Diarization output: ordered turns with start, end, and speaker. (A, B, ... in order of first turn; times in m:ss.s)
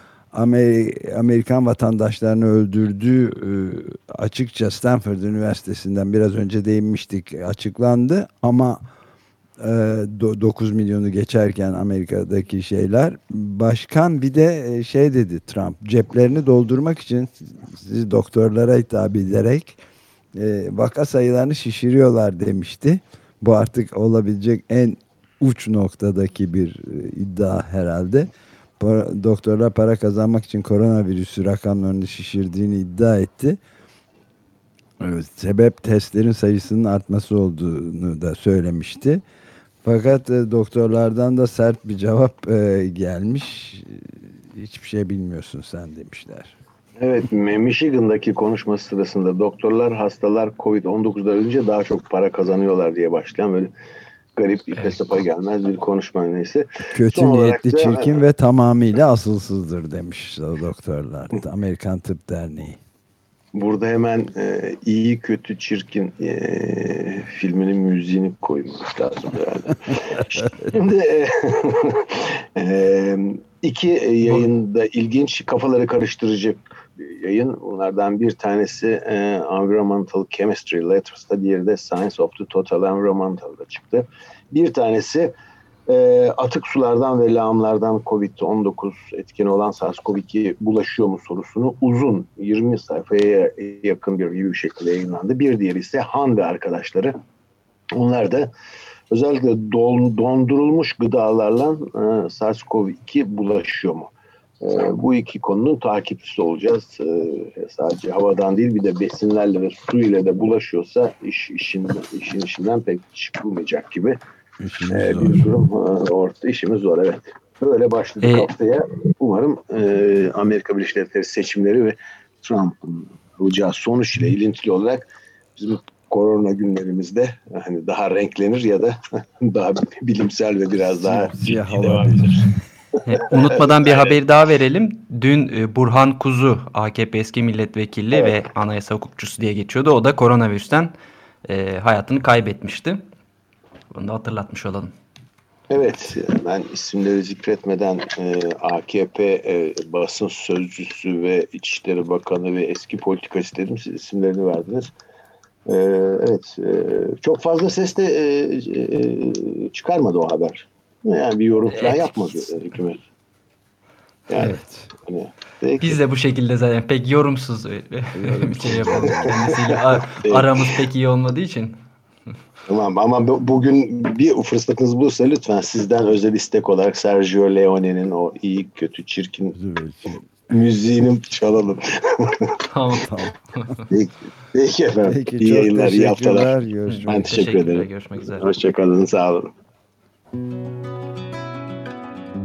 0:00.3-0:08.8 A
0:09.6-0:19.8 A
0:20.4-0:28.3 A
0:28.8-0:33.6 A
0:35.0-0:39.2 A
0:39.8-0:46.6 A
0:47.0-0:53.7 B
0:54.4-0:58.2 B
0:56.9-1:02.8 A
1:03.6-1:25.3 B
1:25.9-1:37.2 B
1:37.9-1:38.5 B
1:39.1-1:54.2 B
1:54.6-1:55.5 A
1:54.9-2:12.5 B
1:58.2-1:58.5 C
2:10.8-2:12.4 A
2:13.0-2:20.9 C
2:13.8-2:14.1 B
2:21.4-2:23.0 C
2:23.9-2:24.9 C
2:25.7-2:34.9 B
2:35.7-2:43.0 B
2:41.7-2:42.6 C
2:44.3-2:46.0 B
2:44.4-2:44.9 A
2:45.8-2:51.8 C
2:48.2-2:49.4 A
2:48.9-2:50.7 B
2:52.7-2:59.6 B
2:59.6-3:00.3 A
3:00.5-3:02.6 B
3:02.7-3:03.8 C
3:03.1-3:03.3 A
3:03.9-3:06.6 B
3:05.0-3:07.5 A
3:06.9-3:08.5 C
3:07.1-3:09.5 B